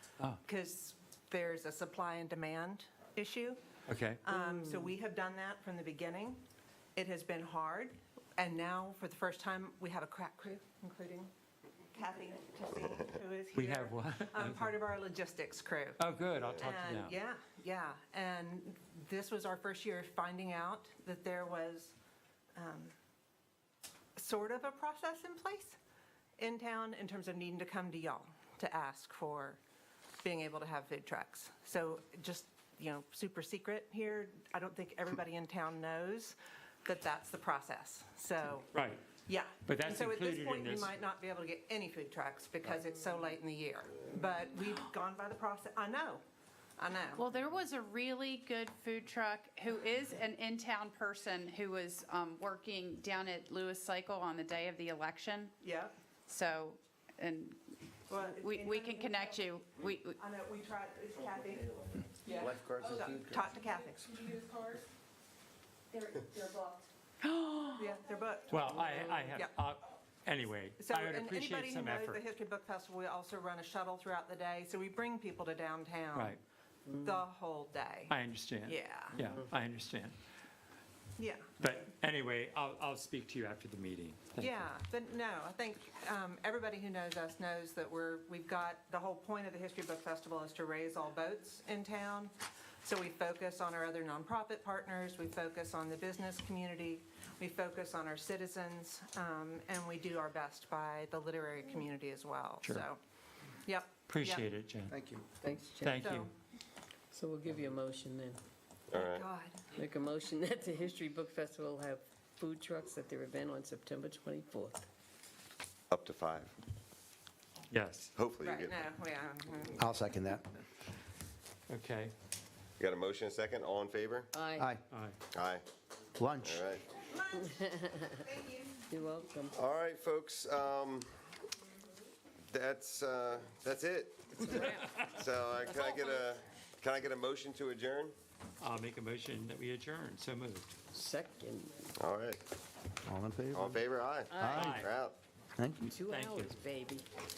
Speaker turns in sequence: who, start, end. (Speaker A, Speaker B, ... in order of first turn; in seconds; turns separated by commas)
Speaker A: 0.4-3.6, Speaker B: 3.9-4.2, Speaker A: 4.2-6.4, Speaker A: 7.0-11.3, Speaker A: 11.9-16.0, Speaker B: 13.5-14.8, Speaker B: 16.0-17.2, Speaker C: 16.4-16.7, Speaker A: 16.6-21.9, Speaker A: 22.6-22.9, Speaker A: 24.1-25.8, Speaker A: 26.4-29.6, Speaker A: 30.2-38.7, Speaker B: 38.7-39.0, Speaker A: 39.2-46.2, Speaker B: 39.6-40.9, Speaker A: 46.8-47.3, Speaker D: 47.2-55.6, Speaker A: 55.6-55.9, Speaker D: 56.3-60.2, Speaker A: 58.1-59.5, Speaker A: 60.1-64.4, Speaker E: 62.4-63.4, Speaker D: 65.9-68.0, Speaker A: 67.8-69.5, Speaker B: 68.5-72.2, Speaker A: 70.8-76.4, Speaker B: 76.1-76.4, Speaker A: 77.0-79.2, Speaker B: 78.1-80.2, Speaker A: 81.2-81.5, Speaker B: 81.6-84.7, Speaker A: 84.4-103.0, Speaker A: 103.6-104.5, Speaker B: 104.1-104.9, Speaker E: 104.9-105.3, Speaker F: 105.3-106.2, Speaker B: 105.8-106.3, Speaker A: 106.0-106.3, Speaker F: 107.1-108.4, Speaker C: 108.9-109.2, Speaker A: 108.9-109.7, Speaker F: 109.7-114.8, Speaker C: 115.9-116.5, Speaker B: 117.7-118.1, Speaker C: 118.1-118.8, Speaker A: 118.4-119.9, Speaker E: 119.8-120.4, Speaker B: 121.7-122.1, Speaker C: 122.8-124.3, Speaker F: 124.3-124.7, Speaker E: 124.6-124.8, Speaker B: 124.9-125.2, Speaker C: 125.3-125.6, Speaker E: 126.2-126.6, Speaker C: 126.4-126.8, Speaker A: 127.1-127.5, Speaker F: 127.3-128.2, Speaker A: 128.1-128.7, Speaker F: 128.9-129.6, Speaker C: 129.5-131.1, Speaker C: 132.5-138.1, Speaker F: 134.4-135.0, Speaker B: 138.6-140.8, Speaker F: 140.9-141.9, Speaker C: 142.0-142.4, Speaker E: 143.1-143.8, Speaker C: 143.5-145.2, Speaker F: 144.3-144.9, Speaker E: 144.4-144.8, Speaker B: 144.5-144.9, Speaker E: 145.6-146.0, Speaker F: 145.9-147.1, Speaker B: 146.1-146.6